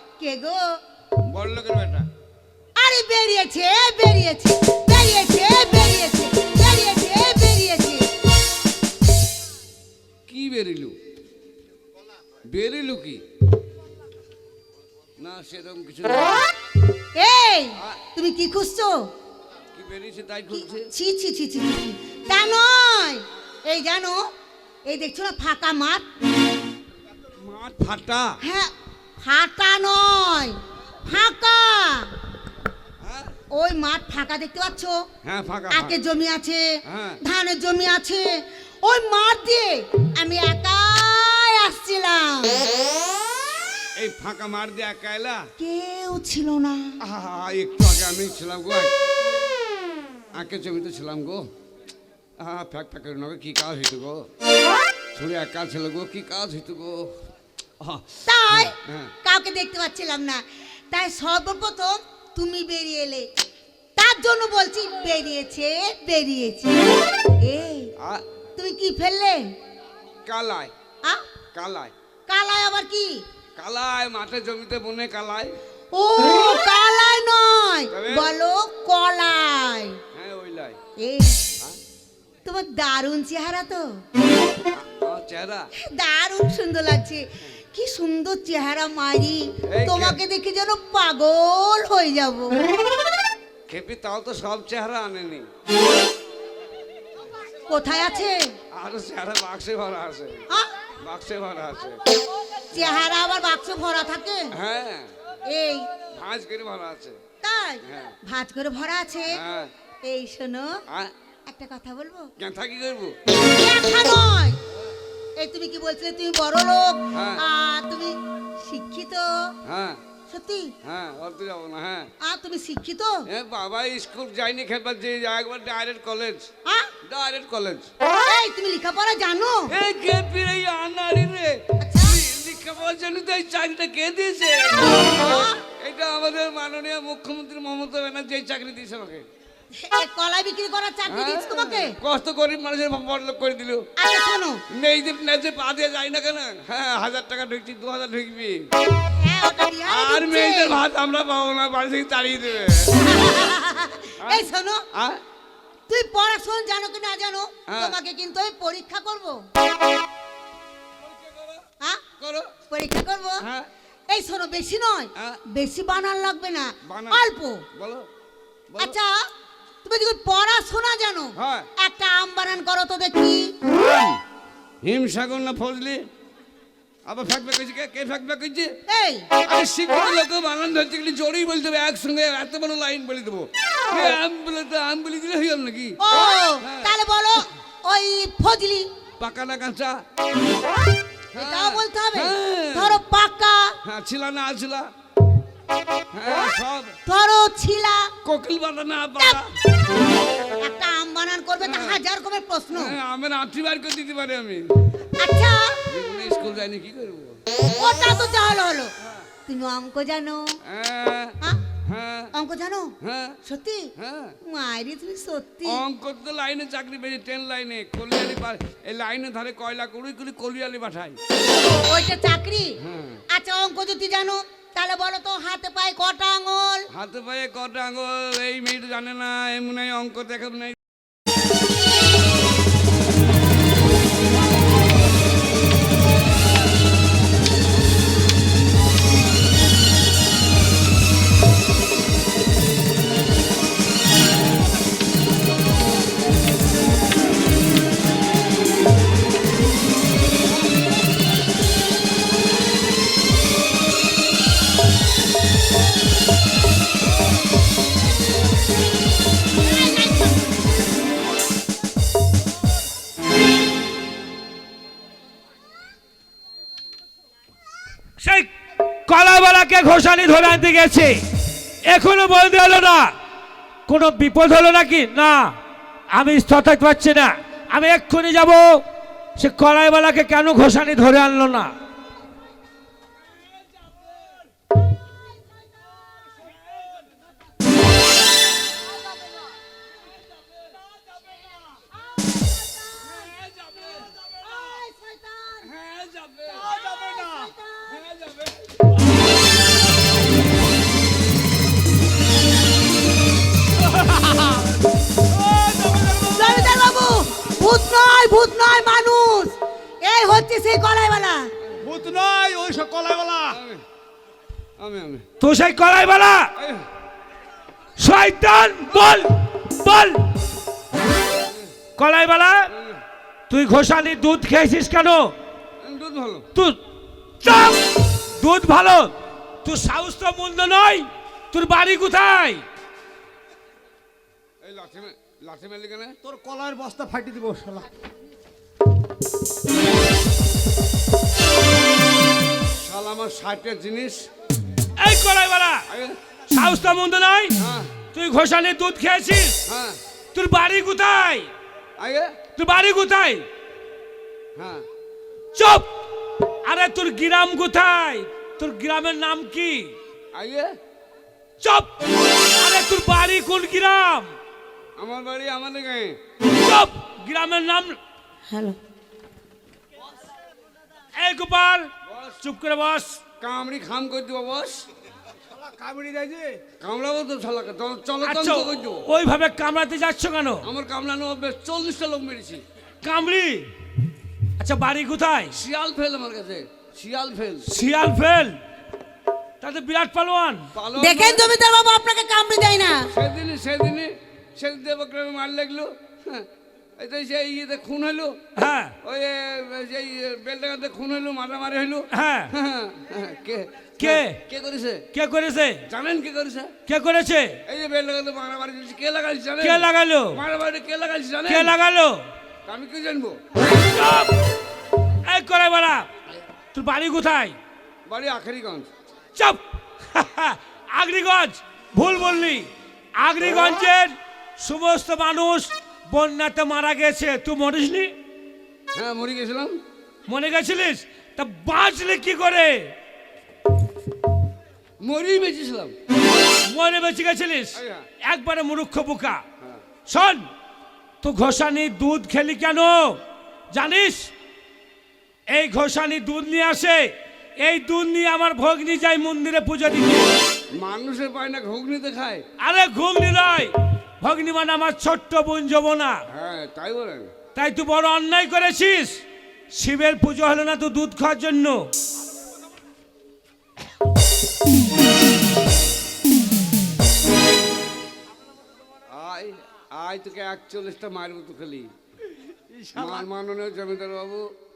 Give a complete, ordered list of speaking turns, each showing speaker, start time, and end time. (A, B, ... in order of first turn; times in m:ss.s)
0:00.2-0:00.8 A
0:01.2-0:02.1 B
0:02.8-0:08.1 A
0:10.3-0:11.0 B
0:12.4-0:13.2 B
0:15.2-0:16.5 B
0:17.2-0:19.1 A
0:19.7-0:20.9 B
0:20.6-0:24.3 A
0:24.8-0:26.0 A
0:27.4-0:28.4 B
0:28.4-0:32.1 A
0:33.0-0:33.3 B
0:33.5-0:35.0 A
0:35.2-0:36.0 B
0:35.7-0:42.7 A
0:36.9-0:37.2 B
0:44.0-0:45.5 B
0:45.6-0:46.9 A
0:47.0-0:48.9 B
0:50.3-0:51.5 B
0:52.4-0:54.2 B
0:55.1-0:57.2 B
0:57.8-0:59.1 B
0:58.2-1:03.3 A
1:04.0-1:07.9 A
1:08.0-1:08.2 B
1:08.6-1:09.4 A
1:10.2-1:10.7 B
1:11.5-1:11.9 B
1:12.3-1:13.2 A
1:13.6-1:15.6 B
1:15.9-1:20.0 A
1:17.9-1:18.3 B
1:20.1-1:20.8 B
1:21.0-1:21.4 A
1:22.4-1:23.9 A
1:24.7-1:25.7 B
1:25.8-1:32.9 A
1:29.7-1:30.2 B
1:33.7-1:35.5 B
1:37.7-1:38.4 A
1:38.7-1:40.4 B
1:41.0-1:42.0 B
1:42.7-1:44.5 A
1:44.5-1:45.1 B
1:45.5-1:45.9 A
1:46.1-1:47.2 B
1:47.4-1:49.4 A
1:47.8-1:48.2 B
1:49.3-1:49.7 B
1:50.0-1:50.8 A
1:50.9-1:51.1 B
1:51.4-1:52.3 A
1:52.4-1:53.1 B
1:53.4-1:54.6 A
1:55.4-1:59.5 A
1:57.1-1:57.4 B
1:59.6-2:00.0 B
2:00.3-2:00.7 A
2:00.8-2:02.1 B
2:02.2-2:03.2 A
2:03.3-2:06.5 B
2:06.6-2:06.9 A
2:07.0-2:07.9 B
2:08.2-2:09.7 A
2:09.7-2:19.3 B
2:11.8-2:12.2 A
2:15.1-2:15.6 A
2:19.7-2:22.0 A
2:21.0-2:23.9 B
2:24.0-2:24.6 A
2:24.7-2:28.7 B
2:29.2-2:30.8 A
2:29.9-2:33.2 B
2:33.0-2:34.8 A
2:34.2-2:35.2 B
2:35.9-2:39.4 A
2:37.7-2:38.0 B
2:42.2-2:42.5 B
2:42.7-2:43.4 A
2:43.4-2:43.7 B
2:44.1-2:47.6 A
2:45.2-2:45.4 B
2:46.8-2:48.1 B
2:48.7-2:49.0 B
2:48.8-2:49.1 A
2:49.8-2:53.6 A
2:51.4-2:51.7 B
2:53.7-2:54.2 B
2:54.8-2:56.0 B
2:57.0-2:58.7 B
2:58.9-2:59.3 A
2:59.4-3:06.9 B
3:06.0-3:08.9 A
3:09.2-3:10.0 B
3:11.3-3:13.0 B
3:11.3-3:13.8 A
3:13.8-3:14.9 B
3:16.1-3:17.0 B
3:17.0-3:18.1 A
3:18.2-3:19.5 B
3:20.6-3:23.0 A
3:21.6-3:22.0 B
3:22.7-3:24.7 B
3:25.2-3:25.8 A
3:25.8-3:27.4 B
3:27.7-3:28.9 A
3:29.5-3:30.6 A
3:30.6-3:32.3 B
3:32.3-3:33.9 A
3:33.0-3:33.4 B
3:34.0-3:34.4 B
3:34.4-3:35.8 A
3:35.6-3:41.2 B
3:41.5-3:42.8 A
3:42.8-3:43.2 B
3:43.3-3:46.9 A
3:46.9-3:50.8 B
4:28.2-4:28.5 C
4:29.1-4:31.2 C
4:31.8-4:33.1 C
4:33.9-4:35.6 C
4:36.1-4:38.8 C
4:39.4-4:41.7 C
4:53.2-4:54.2 B
4:54.2-4:55.7 A
4:55.6-4:56.8 B
4:56.6-4:58.0 A
4:57.9-4:58.8 B
5:04.0-5:04.6 D
5:05.3-5:06.7 D
5:06.2-5:11.5 A
5:11.8-5:13.6 D
5:13.5-5:13.8 B
5:14.8-5:15.2 B
5:15.4-5:16.5 C
5:16.6-5:16.8 B
5:18.0-5:20.2 C
5:21.3-5:21.7 B
5:22.0-5:22.7 C
5:22.7-5:23.0 B
5:23.5-5:25.3 C
5:25.8-5:26.5 B
5:27.4-5:27.8 C
5:28.4-5:32.6 C
5:34.6-5:36.2 B
5:36.2-5:37.9 D
5:42.7-5:44.3 B
5:45.0-5:45.8 C
5:45.9-5:46.2 B
5:46.5-5:47.6 C
5:47.6-5:48.0 B
5:48.1-5:49.6 C
5:49.6-5:50.0 B
5:50.3-5:51.5 C
5:52.0-5:52.4 B
5:52.6-5:53.5 C
5:54.6-5:54.8 B
5:55.5-5:55.9 C
5:56.6-5:59.9 C
6:00.3-6:00.7 B
6:01.6-6:01.9 C
6:02.6-6:04.3 C
6:05.0-6:06.2 B
6:06.5-6:08.0 C
6:08.5-6:08.8 A
6:11.2-6:13.2 C
6:12.0-6:12.4 B
6:13.4-6:14.9 B
6:15.6-6:16.6 D
6:16.8-6:19.0 B
6:18.2-6:20.7 C
6:20.6-6:22.6 B
6:23.0-6:23.7 C
6:24.6-6:25.5 C
6:25.5-6:27.7 B
6:27.7-6:28.6 C
6:29.6-6:30.7 C
6:30.7-6:31.4 B
6:31.0-6:33.1 A
6:33.1-6:36.4 B
6:37.0-6:38.4 B
6:38.6-6:38.9 C
6:39.0-6:45.1 B
6:42.1-6:42.5 C
6:44.0-6:44.4 C
6:45.1-6:45.8 C
6:45.8-6:46.8 B
6:46.8-6:47.6 C
6:47.6-6:51.7 B
6:49.6-6:50.4 C
6:51.5-6:52.3 C
6:52.6-6:53.4 B
6:53.6-6:54.3 C
6:55.2-6:56.1 C
6:56.7-6:57.6 C
6:58.0-6:58.9 B
6:59.4-7:08.1 C
7:08.9-7:09.8 B
7:10.2-7:12.9 C
7:15.0-7:15.9 B
7:16.6-7:19.4 C
7:17.7-7:18.1 B
7:20.1-7:20.5 C
7:21.2-7:24.3 C
7:25.5-7:30.3 C
7:30.7-7:32.4 B
7:32.6-7:36.2 C
7:36.3-7:37.3 B
7:37.5-7:39.2 C
7:39.7-7:41.9 C
7:49.1-7:51.9 B
7:52.8-7:53.1 D
7:52.9-7:54.4 B